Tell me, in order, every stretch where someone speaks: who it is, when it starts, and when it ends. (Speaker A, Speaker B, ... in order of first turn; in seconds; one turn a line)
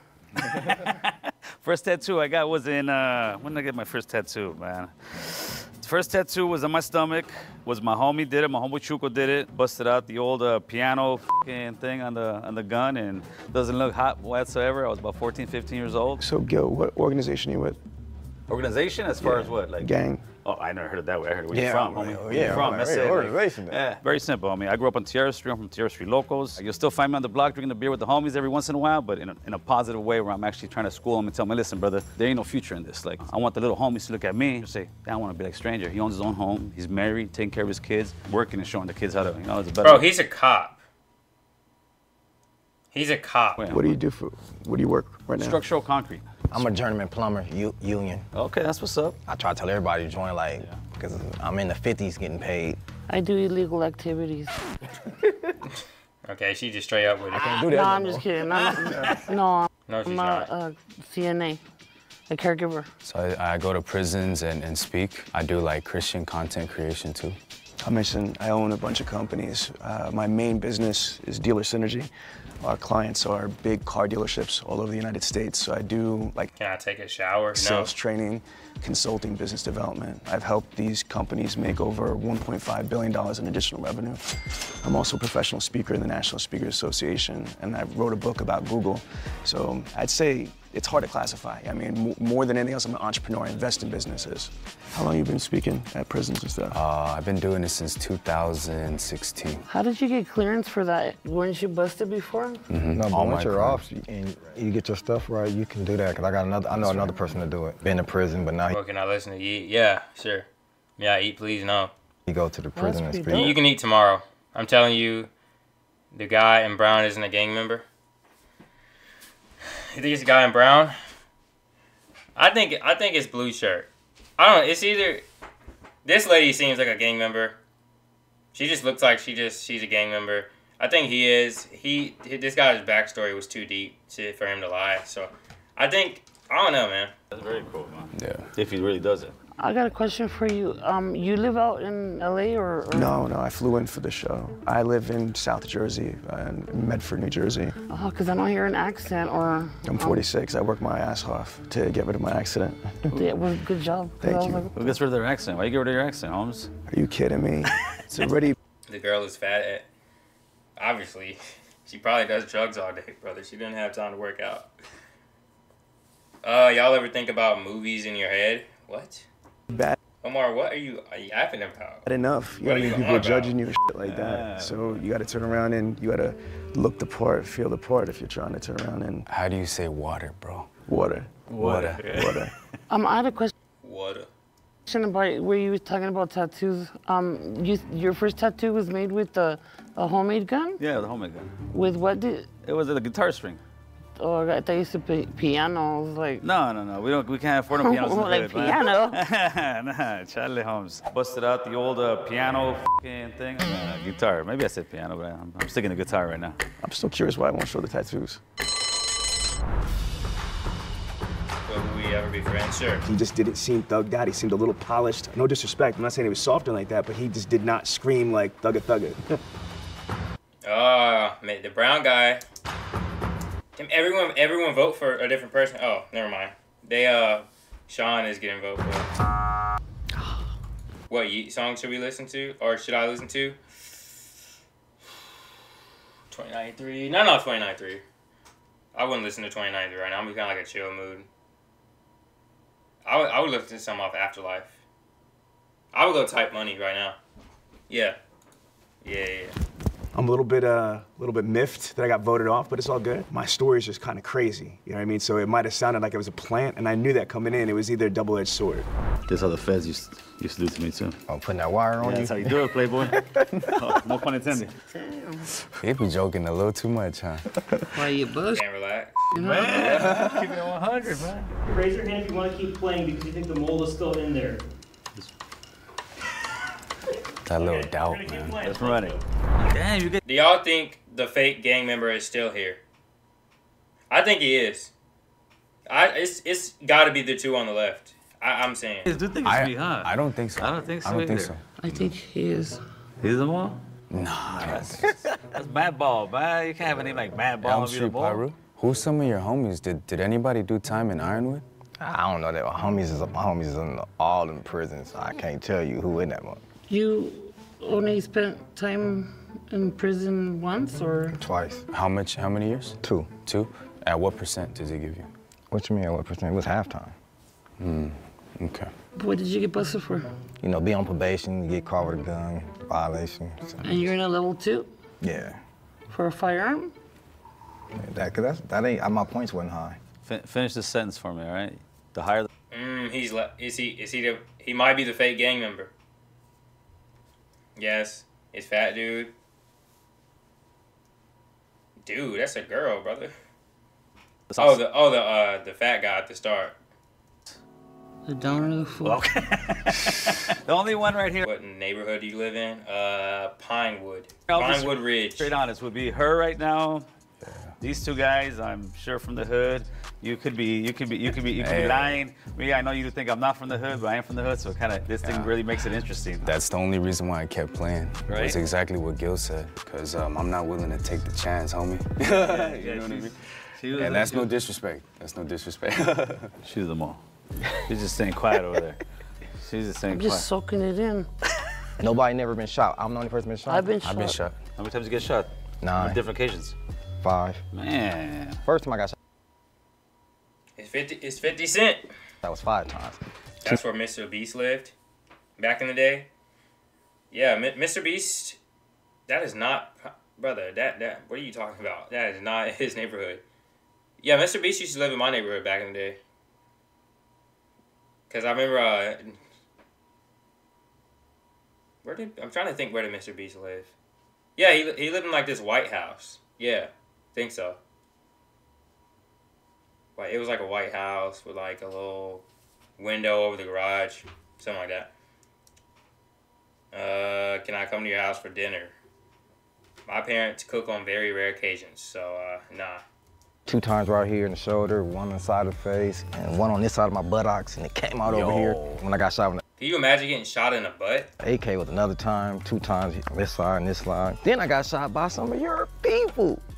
Speaker A: 0.4-16.2
Speaker B: 16.2-17.8
Speaker A: 18.5-19.9
Speaker B: 19.2-20.2
Speaker A: 20.4-40.0
Speaker C: 21.5-23.8
Speaker D: 39.8-40.8
Speaker D: 42.9-43.6
Speaker A: 43.5-44.0
Speaker B: 43.7-45.6
Speaker A: 45.4-46.2
Speaker C: 46.5-48.2
Speaker A: 48.3-49.2
Speaker C: 49.3-52.8
Speaker E: 53.1-54.5
Speaker D: 56.2-57.6
Speaker C: 57.3-58.3
Speaker E: 57.5-61.6
Speaker D: 59.9-60.5
Speaker E: 62.3-62.9
Speaker F: 63.0-67.4
Speaker B: 67.8-72.1
Speaker B: 72.6-76.5
Speaker D: 76.6-77.9
Speaker B: 77.5-96.8
Speaker F: 96.7-99.6
Speaker E: 99.7-102.6
Speaker F: 102.7-103.8
Speaker C: 102.9-108.8
Speaker F: 106.7-107.1
Speaker D: 108.7-110.5
Speaker D: 111.0-111.9
Speaker C: 112.2-113.6
Speaker E: 112.7-113.6
Speaker D: 113.3-115.3
Speaker D: 116.1-117.8
Speaker D: 119.9-120.9
Speaker D: 122.3-125.2
Speaker D: 126.0-127.6
Speaker D: 128.5-137.1
Speaker A: 137.3-139.3
Speaker F: 138.2-138.5
Speaker E: 139.6-143.1
Speaker B: 142.9-147.7
Speaker E: 147.8-150.2
Speaker B: 149.8-153.2
Speaker E: 153.1-154.7
Speaker B: 154.2-154.6
Speaker A: 154.7-156.7
Speaker B: 156.9-158.5
Speaker D: 158.9-159.9
Speaker D: 160.8-164.7
Speaker D: 166.4-169.3
Speaker B: 169.7-169.9
Speaker D: 170.2-172.0
Speaker B: 172.0-179.2
Speaker D: 172.6-173.6
Speaker A: 174.0-174.9
Speaker F: 179.3-180.7
Speaker B: 180.8-181.3
Speaker A: 181.5-182.5
Speaker F: 181.6-182.2
Speaker B: 182.0-182.5
Speaker E: 182.9-183.5
Speaker D: 183.8-184.3
Speaker E: 184.9-190.8
Speaker A: 190.8-191.5
Speaker E: 191.7-192.5
Speaker A: 192.6-193.6
Speaker E: 194.2-196.4
Speaker A: 196.4-206.6
Speaker E: 197.7-199.2
Speaker B: 206.8-208.4
Speaker D: 211.6-213.0
Speaker B: 213.0-219.4
Speaker D: 220.6-222.4
Speaker D: 223.8-229.1
Speaker D: 231.1-233.6
Speaker D: 236.3-238.0
Speaker D: 238.9-241.3
Speaker D: 243.0-244.7
Speaker D: 245.9-247.2
Speaker D: 247.9-248.2
Speaker D: 249.0-249.5
Speaker B: 250.1-258.9
Speaker A: 259.3-261.2
Speaker C: 261.3-263.7
Speaker A: 262.0-264.7
Speaker E: 264.9-265.5
Speaker F: 265.8-267.4
Speaker E: 267.9-268.6
Speaker D: 268.5-269.3
Speaker E: 269.3-270.2
Speaker A: 269.4-271.5
Speaker G: 271.6-274.6
Speaker F: 277.4-278.7
Speaker G: 277.6-279.2
Speaker A: 278.6-280.2
Speaker D: 280.2-282.8
Speaker D: 284.1-284.9
Speaker D: 285.9-289.1
Speaker A: 289.1-291.6
Speaker F: 289.4-291.6
Speaker E: 291.8-292.8
Speaker A: 293.2-293.8
Speaker F: 294.1-295.1
Speaker A: 294.6-298.4
Speaker F: 297.6-301.6
Speaker C: 302.0-306.6
Speaker E: 306.9-311.4
Speaker C: 311.3-311.8
Speaker F: 311.9-315.3
Speaker C: 313.0-313.3
Speaker C: 315.7-317.1
Speaker F: 317.8-318.9
Speaker E: 319.1-320.3
Speaker C: 320.6-324.1
Speaker E: 323.8-324.9
Speaker C: 325.2-325.6
Speaker E: 326.1-326.9
Speaker C: 328.0-330.0
Speaker A: 330.2-332.5
Speaker D: 332.7-335.9
Speaker D: 337.8-339.3
Speaker D: 342.0-343.3
Speaker A: 344.5-344.8
Speaker D: 344.6-346.8
Speaker E: 348.2-349.2
Speaker A: 349.0-351.4
Speaker D: 351.4-355.5
Speaker A: 354.5-357.1
Speaker F: 357.4-357.7
Speaker A: 357.8-366.5
Speaker F: 361.6-362.2
Speaker F: 365.2-365.5
Speaker F: 366.4-373.4
Speaker A: 368.3-368.6
Speaker A: 372.3-374.5
Speaker F: 373.9-376.5
Speaker A: 376.6-377.2
Speaker A: 377.8-379.0
Speaker A: 379.6-380.5
Speaker E: 380.1-381.3
Speaker C: 382.0-383.9
Speaker E: 383.6-384.4
Speaker F: 384.0-384.5
Speaker A: 384.8-386.8
Speaker C: 385.8-386.2
Speaker C: 387.2-387.6
Speaker A: 387.7-388.6
Speaker C: 388.6-389.1
Speaker D: 390.8-392.1
Speaker C: 392.4-393.8
Speaker D: 393.6-394.9
Speaker D: 395.6-396.3
Speaker D: 397.3-398.6
Speaker D: 399.3-403.4
Speaker D: 404.2-406.2
Speaker D: 408.3-409.4
Speaker D: 412.0-413.9
Speaker D: 414.6-417.8
Speaker D: 420.1-422.4
Speaker D: 423.0-425.1
Speaker D: 426.9-428.9
Speaker D: 430.1-433.0
Speaker C: 433.6-439.6
Speaker F: 438.3-439.0
Speaker D: 439.8-441.3
Speaker C: 441.4-446.6